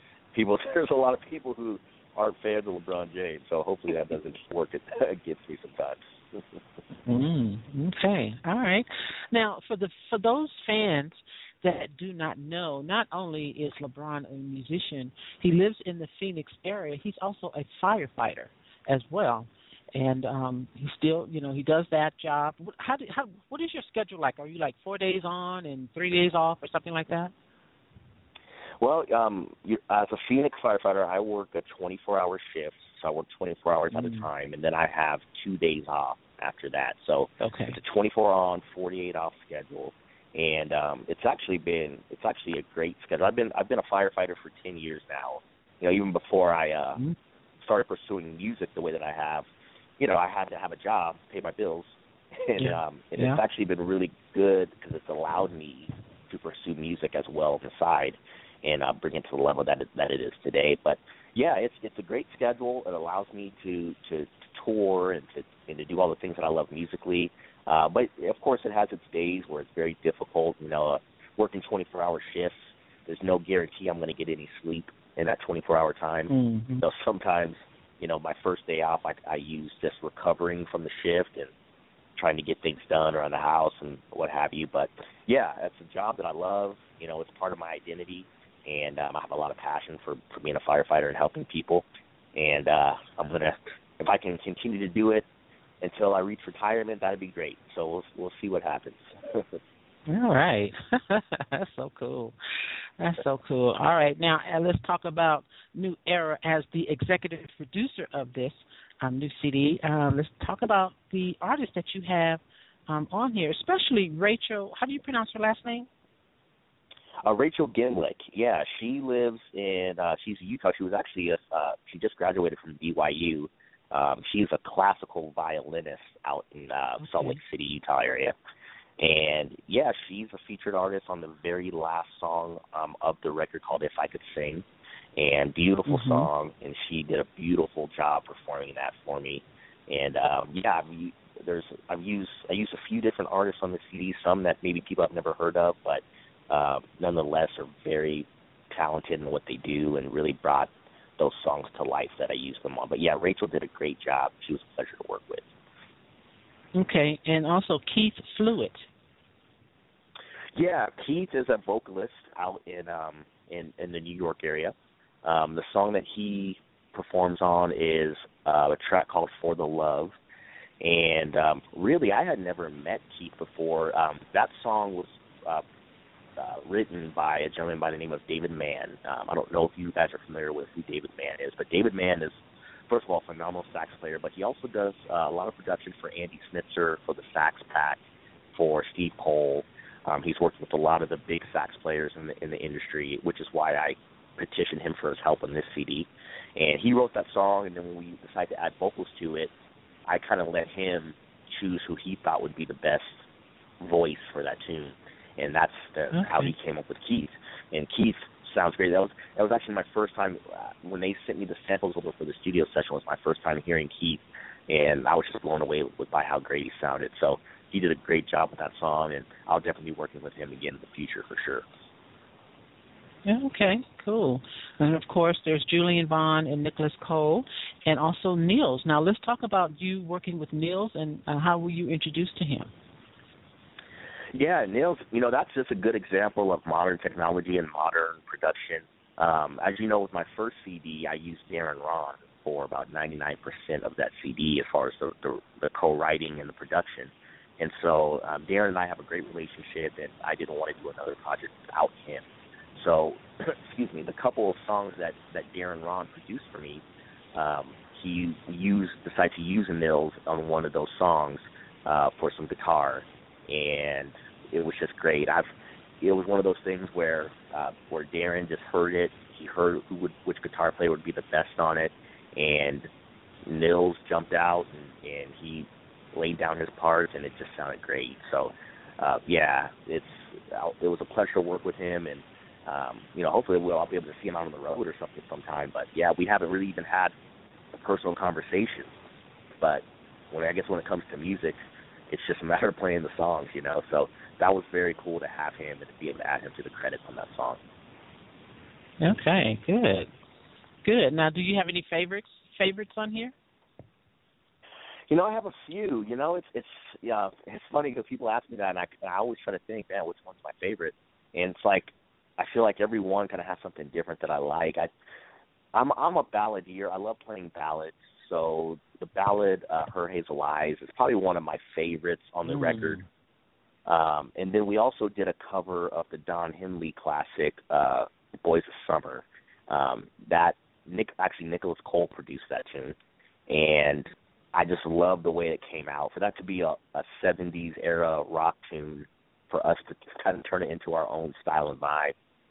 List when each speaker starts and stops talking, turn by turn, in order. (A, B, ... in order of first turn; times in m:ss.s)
0:00.3-0:06.6 A
0:07.1-0:27.3 B
0:28.8-0:47.0 A
0:33.9-0:34.3 B
0:37.4-0:37.8 B
0:47.6-0:49.5 A
0:50.0-1:16.3 A
0:52.6-0:53.4 B
1:16.3-1:16.8 B
1:16.8-1:21.5 A
1:22.2-1:35.3 A
1:35.8-1:39.6 A
1:40.1-1:42.4 B
1:43.0-1:55.9 B
1:57.2-2:08.4 A
2:07.0-2:07.4 B
2:09.0-2:14.6 A
2:15.2-2:35.5 A
2:15.9-2:16.3 B
2:36.8-2:38.9 B
2:40.6-2:50.2 A
2:50.8-2:55.6 A
2:56.4-3:08.0 A
3:08.5-3:19.5 A
3:20.1-3:23.2 A
3:23.8-3:41.6 A
3:26.1-3:26.5 B
3:43.2-3:52.7 B
3:54.3-4:12.2 A
4:12.8-4:16.8 A
4:17.4-4:25.5 A
4:26.0-4:32.9 A
4:33.4-4:47.1 A
4:47.7-4:49.0 A
4:49.6-4:51.6 A
4:52.1-4:57.6 A
4:59.0-5:00.1 B
5:00.8-5:03.3 B
5:05.1-5:14.9 A
5:15.7-5:23.0 A
5:22.5-5:23.0 B
5:23.9-5:33.0 A
5:33.5-5:42.1 A